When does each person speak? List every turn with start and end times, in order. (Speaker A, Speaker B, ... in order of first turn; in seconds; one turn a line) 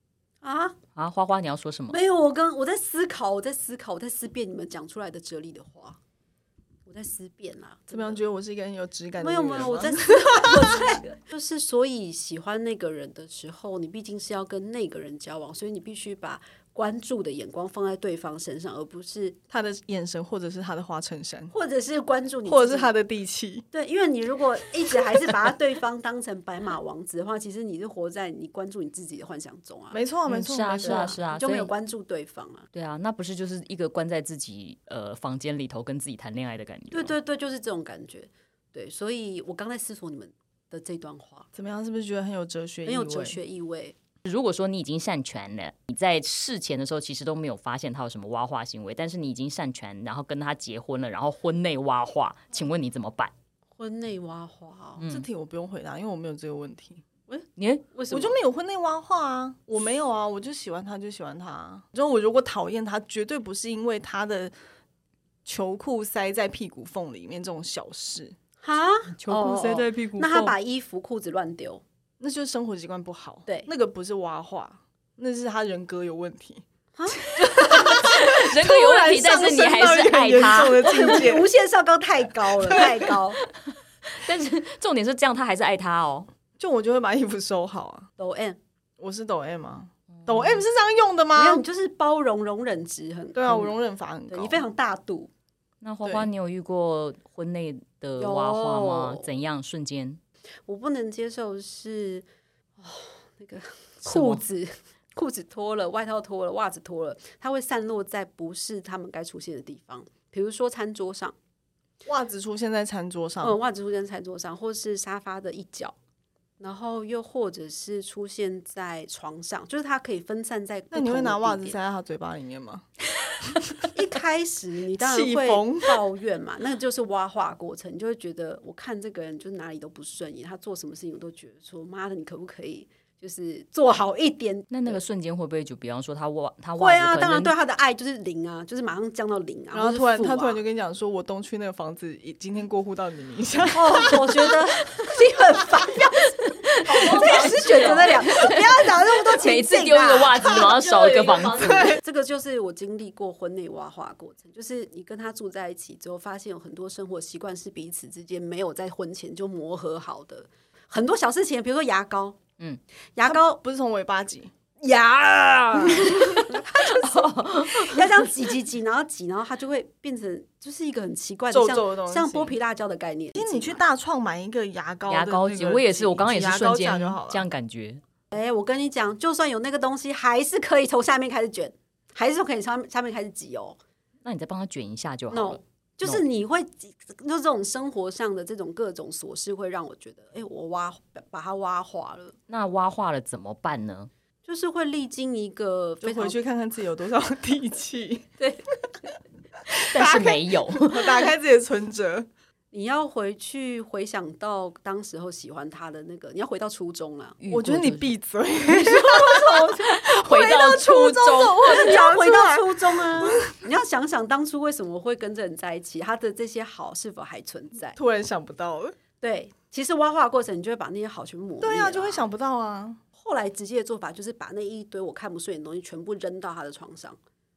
Speaker A: 0.4-0.8
Speaker B: 0.9-2.0
Speaker A: 1.9-6.0
Speaker A: 6.8-8.2
Speaker C: 7.9-10.8
Speaker A: 9.2-19.4
Speaker C: 19.5-21.5
Speaker A: 21.5-22.9
Speaker C: 22.4-23.6
Speaker A: 23.7-30.0
Speaker C: 29.9-31.1
Speaker B: 30.3-31.7
Speaker A: 30.8-32.7
Speaker B: 32.7-37.1
Speaker A: 36.9-41.5
Speaker C: 41.5-43.4
Speaker A: 42.9-44.0
Speaker B: 44.2-53.3
Speaker A: 53.8-55.0
Speaker B: 55.0-55.3
Speaker C: 55.1-57.0
Speaker A: 57.3-58.4
Speaker B: 57.6-57.9
Speaker C: 58.1-64.5
Speaker C: 65.4-68.3
Speaker A: 68.6-71.8
Speaker B: 69.2-70.5
Speaker C: 72.2-76.6
Speaker A: 76.9-78.0
Speaker C: 77.3-81.5
Speaker B: 77.8-81.1
Speaker A: 80.8-83.4
Speaker C: 82.7-83.1
Speaker B: 84.1-86.3
Speaker C: 86.6-88.1
Speaker A: 88.2-88.6
Speaker C: 89.0-91.6
Speaker B: 90.2-90.6
Speaker A: 91.3-93.8
Speaker C: 93.3-94.6
Speaker A: 94.3-95.3
Speaker B: 95.8-100.2
Speaker C: 96.0-96.3
Speaker A: 98.2-99.3
Speaker A: 100.7-102.3
Speaker A: 102.8-111.3
Speaker B: 104.0-104.4
Speaker C: 112.0-113.5
Speaker A: 113.4-115.9
Speaker A: 116.6-121.8
Speaker C: 120.9-122.9
Speaker A: 123.9-135.0
Speaker C: 125.0-126.0
Speaker B: 134.7-137.5
Speaker A: 136.8-140.6
Speaker C: 139.7-144.3
Speaker A: 143.7-162.4
Speaker B: 146.4-148.6
Speaker C: 147.2-148.2
Speaker B: 149.3-152.0
Speaker C: 151.4-152.0
Speaker A: 163.1-163.6
Speaker C: 163.2-164.5
Speaker A: 164.8-173.8
Speaker B: 165.9-168.3
Speaker C: 171.5-172.5
Speaker C: 173.3-177.4
Speaker B: 175.1-178.0
Speaker A: 178.3-183.8
Speaker B: 184.2-186.2
Speaker A: 185.3-192.3
Speaker B: 192.5-194.1
Speaker A: 194.4-196.4
Speaker C: 196.0-198.3
Speaker B: 199.7-201.3
Speaker C: 199.9-202.3
Speaker A: 202.7-207.4
Speaker B: 207.4-208.1
Speaker C: 207.5-213.5
Speaker A: 208.7-209.8
Speaker B: 209.3-212.0
Speaker A: 211.6-217.9
Speaker C: 217.9-218.9
Speaker A: 219.2-222.2
Speaker C: 221.6-223.0
Speaker A: 223.2-227.2